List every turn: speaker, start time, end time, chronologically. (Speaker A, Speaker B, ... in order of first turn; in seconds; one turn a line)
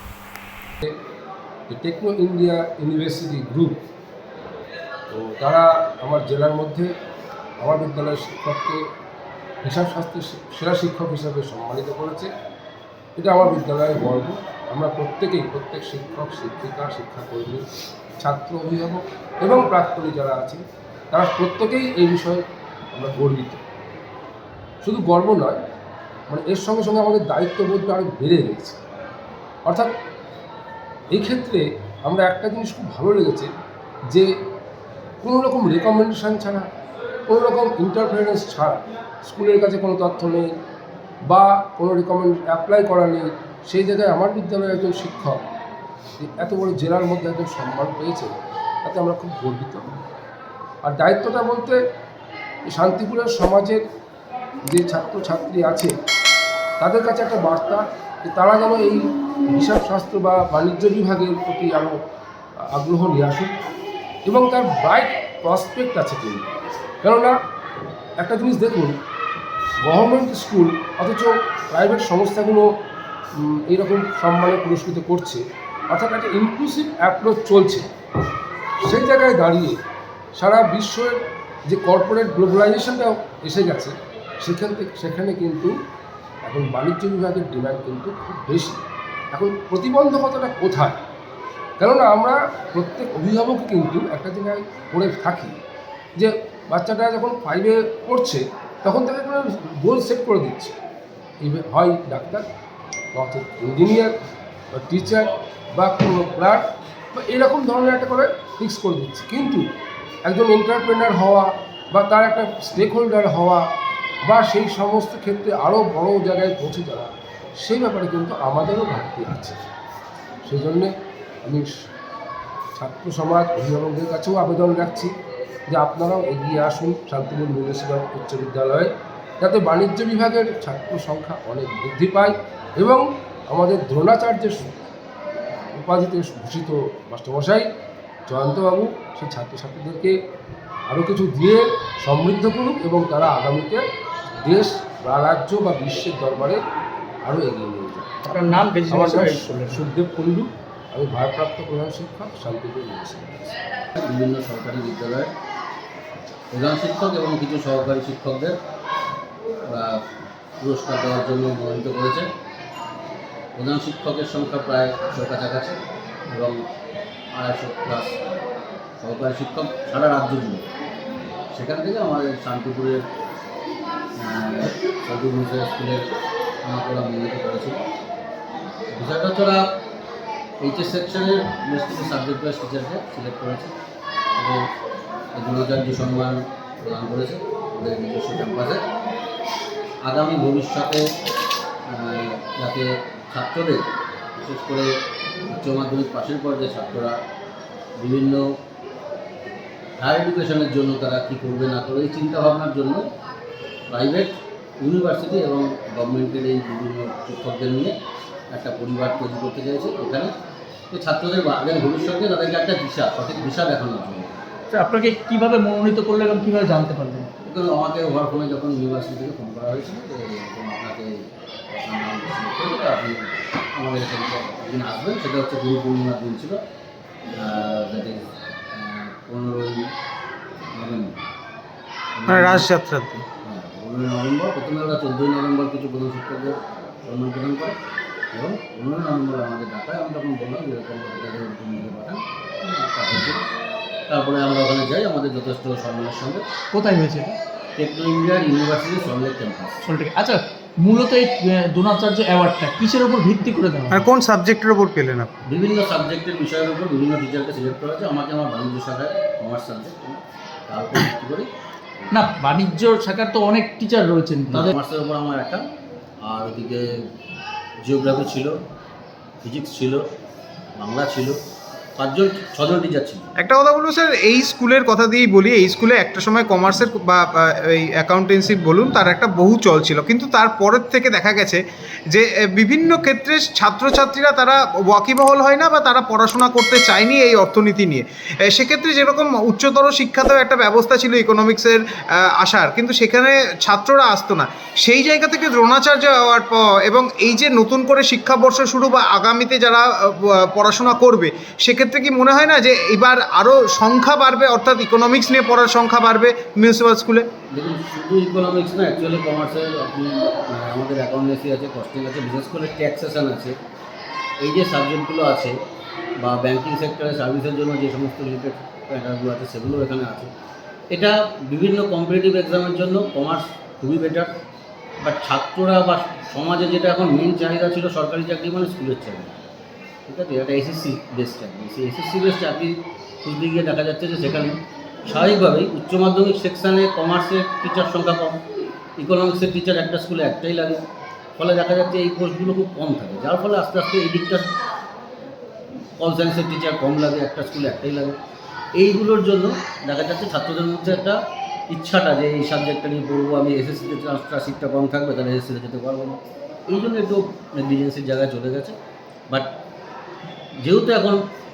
Speaker A: 1.7-3.8
Speaker A: 5.1-6.9
Speaker A: 7.6-8.8
Speaker A: 9.6-12.3
Speaker A: 13.2-17.6
Speaker A: 18.2-23.6
Speaker A: 24.8-25.6
Speaker A: 26.3-28.9
Speaker A: 31.1-33.5
Speaker A: 35.2-36.7
Speaker A: 37.3-40.5
Speaker A: 41.3-45.4
Speaker A: 46.2-49.9
Speaker A: 50.8-51.8
Speaker A: 52.7-53.8
Speaker A: 54.6-55.9
Speaker A: 56.8-62.0
Speaker A: 62.7-63.5
Speaker A: 64.3-66.5
Speaker A: 67.0-67.3
Speaker A: 68.2-69.0
Speaker A: 69.8-72.7
Speaker A: 73.4-77.9
Speaker A: 78.8-79.8
Speaker A: 80.4-85.7
Speaker A: 86.5-88.8
Speaker A: 89.3-91.0
Speaker A: 91.8-95.5
Speaker A: 96.2-100.8
Speaker A: 101.4-102.5
Speaker A: 103.2-104.1
Speaker A: 104.7-109.7
Speaker A: 110.3-113.6
Speaker A: 114.2-119.6
Speaker A: 120.5-120.9
Speaker A: 122.8-125.1
Speaker A: 125.7-134.9
Speaker A: 135.7-137.7
Speaker A: 138.3-140.2
Speaker A: 140.9-143.8
Speaker A: 144.4-146.6
Speaker A: 147.2-148.1
Speaker B: 148.2-149.8
Speaker A: 148.9-153.6
Speaker C: 154.0-155.3
Speaker C: 156.5-158.6
Speaker C: 159.7-160.1
Speaker C: 160.6-162.3
Speaker C: 163.6-166.6
Speaker C: 167.3-168.2
Speaker C: 169.0-170.7
Speaker C: 171.5-173.0
Speaker C: 174.2-176.1
Speaker C: 176.6-177.8
Speaker C: 178.9-179.8
Speaker C: 180.6-183.7
Speaker C: 184.4-184.7
Speaker C: 185.3-188.8
Speaker C: 190.0-191.1
Speaker C: 191.9-194.9
Speaker C: 195.5-197.2
Speaker C: 198.0-198.5
Speaker C: 200.0-203.1
Speaker C: 203.9-207.9
Speaker C: 208.5-210.3
Speaker C: 210.9-214.4
Speaker B: 214.7-217.3
Speaker C: 217.4-226.6
Speaker C: 227.3-229.9
Speaker C: 230.7-231.2
Speaker C: 232.2-232.7
Speaker D: 232.3-233.2
Speaker C: 233.4-237.8
Speaker C: 238.3-243.4
Speaker C: 244.1-246.5
Speaker B: 246.7-247.4
Speaker C: 247.8-249.8
Speaker B: 249.8-254.1
Speaker D: 253.9-255.3
Speaker C: 255.5-262.1
Speaker B: 262.1-264.8
Speaker C: 264.5-265.6
Speaker C: 266.2-267.1
Speaker C: 267.8-268.6
Speaker C: 269.4-270.1
Speaker C: 270.8-271.4
Speaker C: 272.0-273.3
Speaker D: 273.4-307.3
Speaker C: 307.5-313.6
Speaker C: 314.4-315.6
Speaker C: 316.2-320.3
Speaker C: 320.9-324.3
Speaker C: 325.0-329.4
Speaker C: 330.1-338.4
Speaker C: 339.0-340.8
Speaker C: 341.4-344.5
Speaker C: 346.0-348.2
Speaker C: 348.8-351.2
Speaker C: 351.7-358.8
Speaker C: 360.6-361.2